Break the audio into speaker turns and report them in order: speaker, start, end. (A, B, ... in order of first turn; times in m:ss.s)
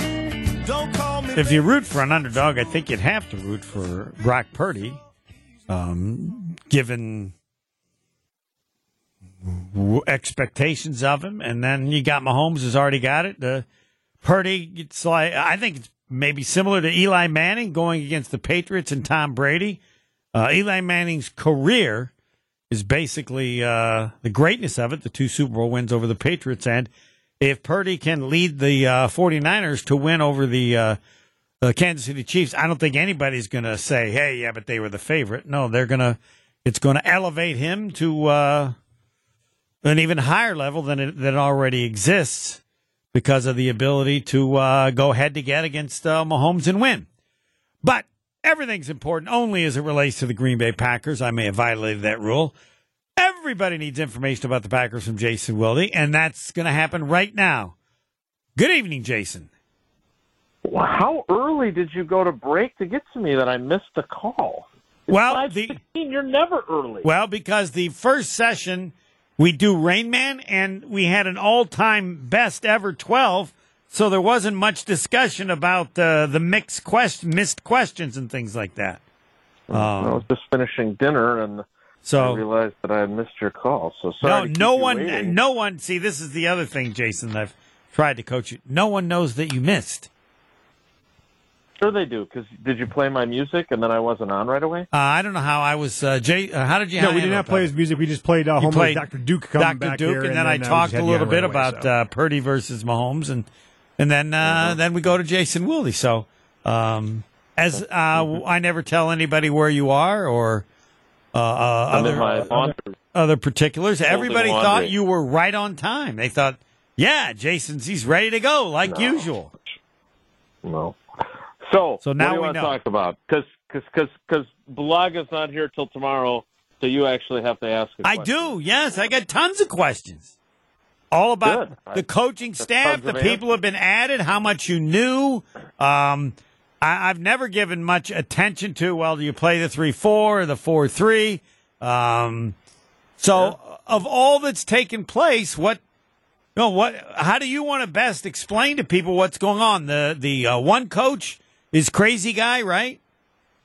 0:00.6-0:02.8 A
0:01.4-0:05.0 B
0:04.2-0:05.7 A
0:05.7-0:07.3 B
0:09.4-0:13.7 B
0:14.2-0:19.8 B
0:20.3-0:22.1 B
0:22.7-0:26.9 B
0:27.4-0:31.0 B
0:31.6-0:38.8 B
0:39.8-0:42.6 B
0:43.1-0:47.1 B
0:47.8-0:52.6 B
0:53.2-0:57.7 B
0:58.6-0:59.5 B
1:00.6-1:07.1 C
1:05.1-1:05.8 B
1:07.0-1:19.0 B
1:19.7-1:21.6 C
1:19.7-1:20.2 B
1:22.0-1:22.4 B
1:22.2-1:25.3 C
1:24.2-1:30.1 B
1:31.8-1:34.9 C
1:34.9-1:37.7 B
1:37.0-1:41.9 A
1:38.6-1:39.0 B
1:39.6-1:50.6 B
1:44.5-1:44.8 C
1:51.3-1:59.5 B
1:51.9-1:52.9 C
1:54.1-1:54.9 C
1:58.9-1:59.2 C
2:00.6-2:01.0 C
2:01.6-2:08.6 C
2:02.0-2:02.7 B
2:08.0-2:10.3 B
2:11.1-2:22.6 B
2:11.4-2:12.1 C
2:12.6-2:13.5 C
2:23.2-2:25.8 B
2:26.6-2:33.0 B